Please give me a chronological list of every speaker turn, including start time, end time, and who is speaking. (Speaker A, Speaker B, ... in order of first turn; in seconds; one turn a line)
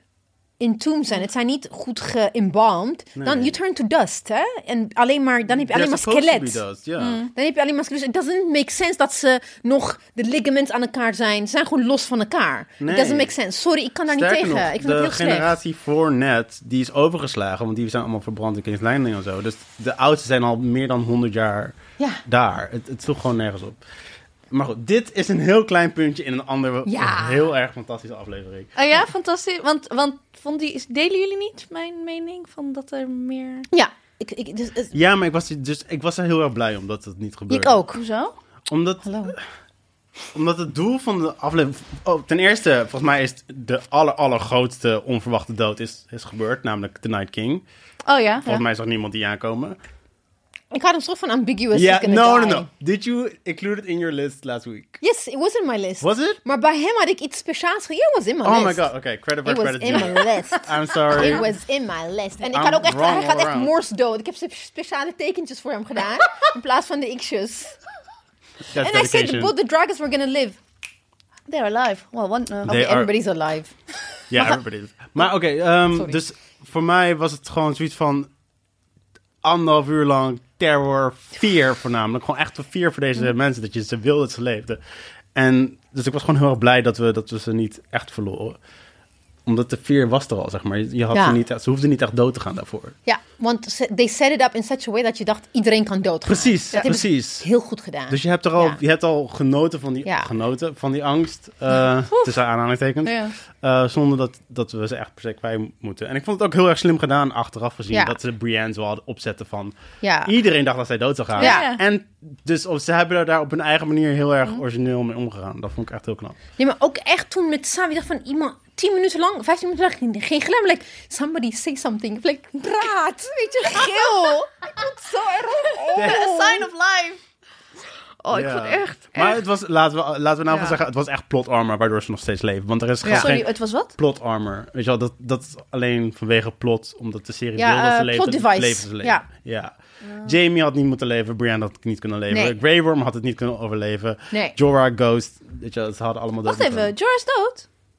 Speaker A: 0.6-6.6
Speaker B: 3.2-3.5
Speaker B: 5.5-7.2
Speaker C: 7.0-7.3
Speaker A: 7.3-15.5
Speaker B: 12.8-13.3
Speaker B: 14.1-23.8
Speaker B: 24.5-28.7
Speaker A: 26.9-27.5
Speaker C: 28.8-33.7
Speaker A: 33.7-34.9
Speaker B: 34.9-37.8
Speaker A: 37.5-38.0
Speaker C: 37.9-38.3
Speaker B: 38.7-39.4
Speaker A: 39.0-39.4
Speaker B: 40.3-47.6
Speaker C: 48.1-48.6
Speaker B: 48.4-49.8
Speaker A: 50.7-52.7
Speaker B: 51.7-55.0
Speaker A: 55.0-58.9
Speaker B: 56.0-56.4
Speaker B: 58.4-61.5
Speaker A: 59.4-67.8
Speaker B: 62.5-63.7
Speaker B: 68.7-69.5
Speaker A: 68.8-70.6
Speaker C: 71.5-72.8
Speaker B: 72.7-73.1
Speaker A: 72.7-73.8
Speaker B: 74.3-78.3
Speaker B: 79.4-84.8
Speaker B: 85.3-88.6
Speaker B: 89.5-93.0
Speaker A: 91.1-91.4
Speaker A: 93.1-98.8
Speaker B: 96.3-97.5
Speaker B: 98.1-116.4
Speaker A: 100.0-100.3
Speaker C: 102.1-102.4
Speaker C: 103.0-103.3
Speaker A: 110.0-110.3
Speaker C: 111.4-111.8
Speaker A: 111.4-111.7
Speaker A: 116.6-126.7
Speaker C: 125.8-127.2
Speaker B: 126.0-126.3
Speaker C: 128.2-129.4
Speaker B: 128.3-146.9
Speaker A: 133.0-133.3
Speaker C: 133.1-133.9
Speaker A: 137.6-139.3
Speaker C: 140.1-140.4
Speaker A: 142.3-142.6
Speaker A: 144.3-144.6
Speaker C: 146.4-147.7